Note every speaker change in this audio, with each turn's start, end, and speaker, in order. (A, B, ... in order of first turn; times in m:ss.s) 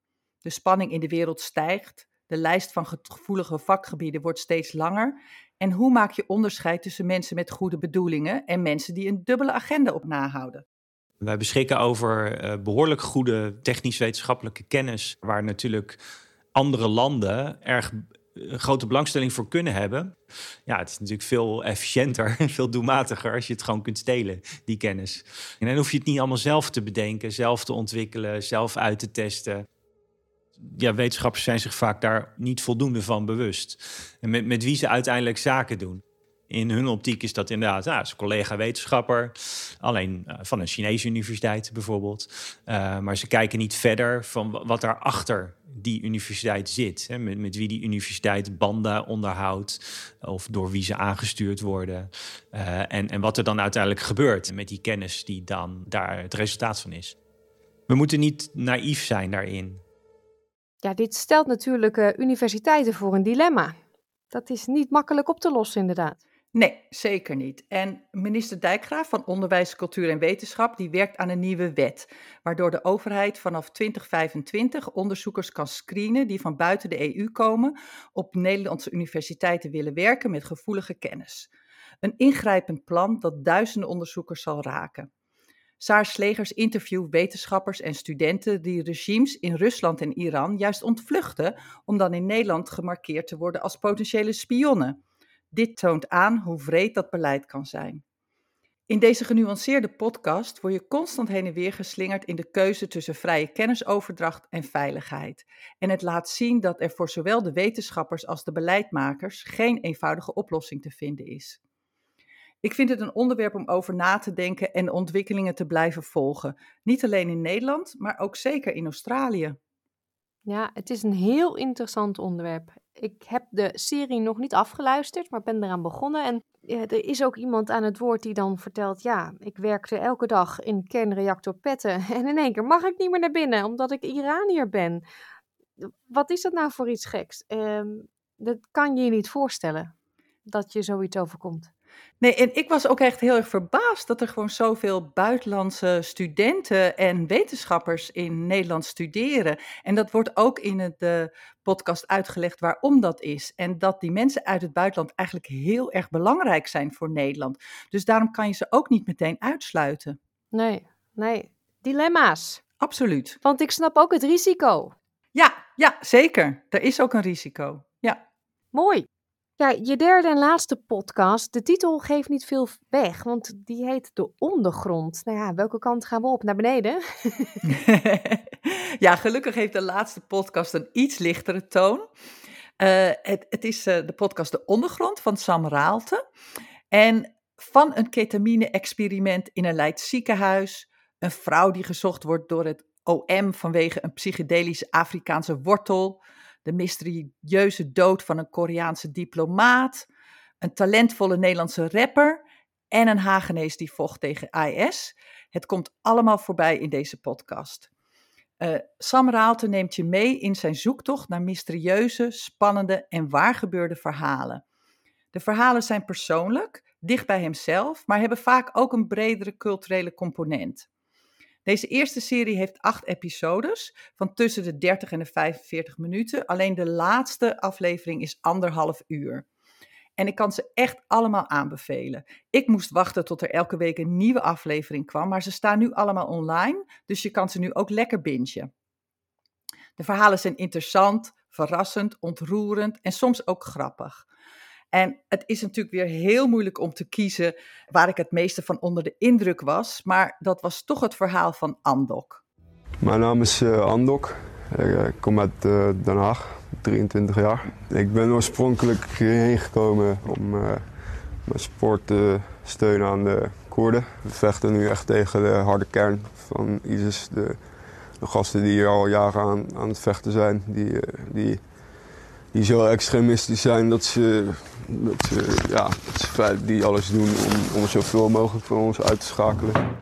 0:00.4-0:10.6 A
0:11.2-0:16.0 B
0:16.5-0:20.1 B
0:20.7-0:29.6 B
0:30.6-0:57.1 B
0:57.9-0:59.8 B
1:00.8-1:03.8 C
1:04.3-1:06.2 C
1:06.5-1:21.5 A
1:22.0-1:25.1 A
1:25.8-1:35.0 A
1:35.5-1:38.0 A
1:38.9-1:51.6 A
1:52.6-1:59.6 A
2:00.4-2:15.0 C
2:15.8-2:19.9 C
2:20.4-2:21.7 C
2:22.2-2:40.2 A
2:40.5-2:42.6 C
2:42.8-2:43.4 A
2:43.4-2:44.9 C
2:45.3-2:48.2 A
2:48.7-2:49.1 C
2:49.6-2:57.6 C
2:57.8-3:02.0 A
3:02.8-3:06.2 A
3:06.9-3:20.1 A
3:20.6-3:27.9 A
3:28.6-3:34.6 A
3:35.3-3:40.9 A
3:41.6-3:49.4 A
3:50.2-3:58.7 A
4:00.0-4:04.2 A
4:04.9-4:12.4 A
4:13.0-4:20.8 D
4:21.4-4:27.6 D
4:28.2-4:31.6 D
4:32.5-4:39.8 D